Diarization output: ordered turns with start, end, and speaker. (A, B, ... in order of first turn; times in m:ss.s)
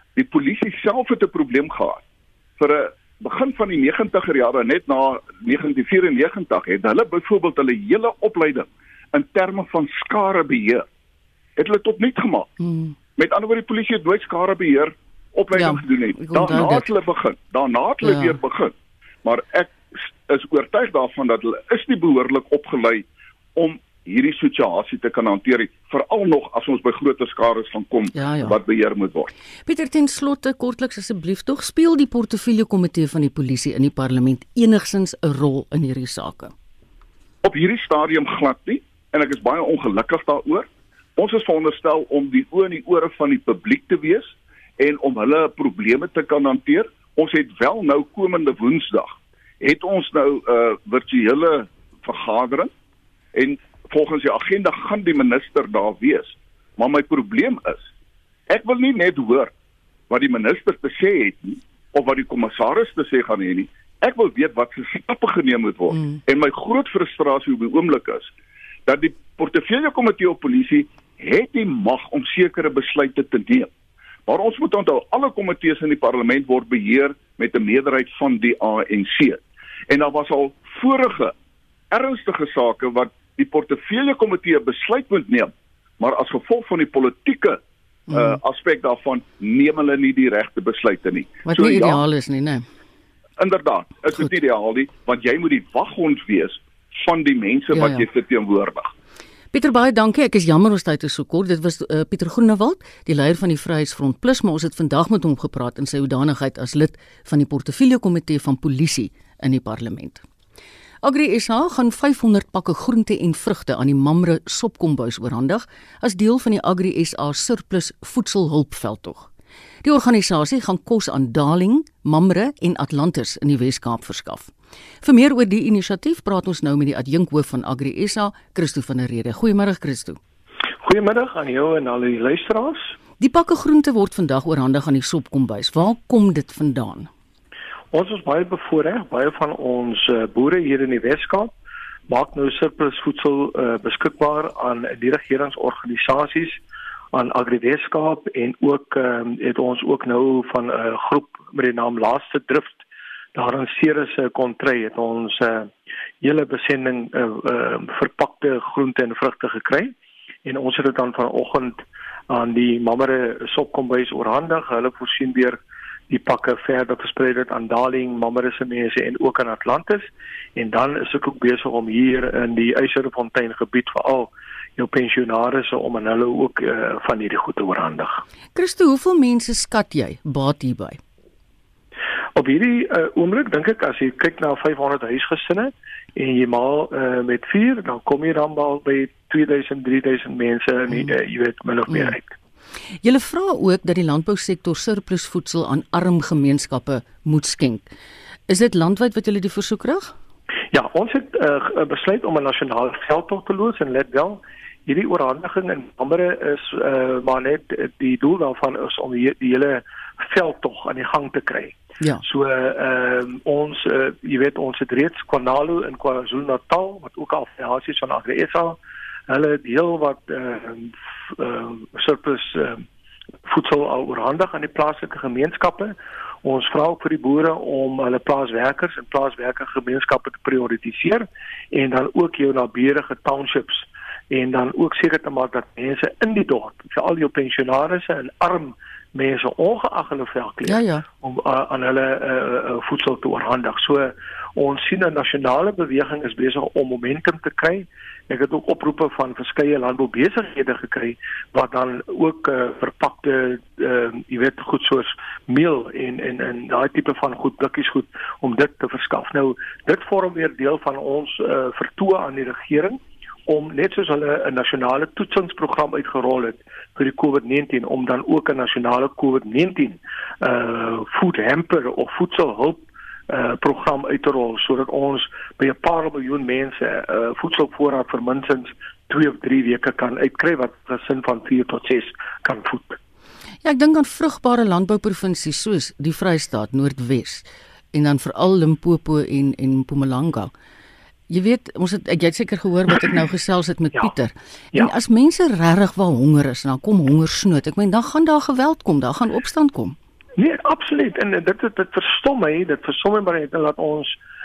0:00.2-0:02.0 A
0:02.6-0:10.8 A
0:11.6-0:12.5 A
0:12.6-0:13.0 B
0:13.2-0:23.0 A
0:15.5-0:16.9 B
0:18.0-0:18.4 B
0:23.6-0:29.3 A
0:28.1-0:28.6 B
0:29.7-0:36.5 B
0:37.4-0:52.7 A
0:53.4-0:57.9 A
0:58.5-0:59.5 A
1:00.1-1:08.3 A
1:08.9-1:13.7 A
1:14.3-1:21.3 A
1:21.9-1:27.6 A
1:28.1-1:28.4 B
1:28.1-1:32.0 A
1:31.4-1:32.6 B
1:33.4-1:38.9 A
1:37.7-1:38.0 B
1:39.5-1:50.2 B
1:51.0-1:59.3 B
1:59.8-2:04.5 B
2:05.0-2:10.2 B
2:10.8-2:12.9 C
2:13.2-2:17.1 B
2:17.9-2:21.5 C
2:22.1-2:26.6 C
2:27.1-2:32.8 C
2:33.4-2:39.9 C
2:40.4-2:45.6 C
2:46.1-2:58.2 C
2:58.6-3:01.0 B
3:02.4-3:12.3 C
3:11.9-3:12.2 B
3:13.0-3:17.9 B
3:18.5-3:20.1 B
3:20.7-3:42.8 C
3:43.5-4:43.0 C
4:00.6-4:01.0 B
4:43.6-4:50.5 B
4:51.3-5:00.0 B
5:00.4-5:04.2 C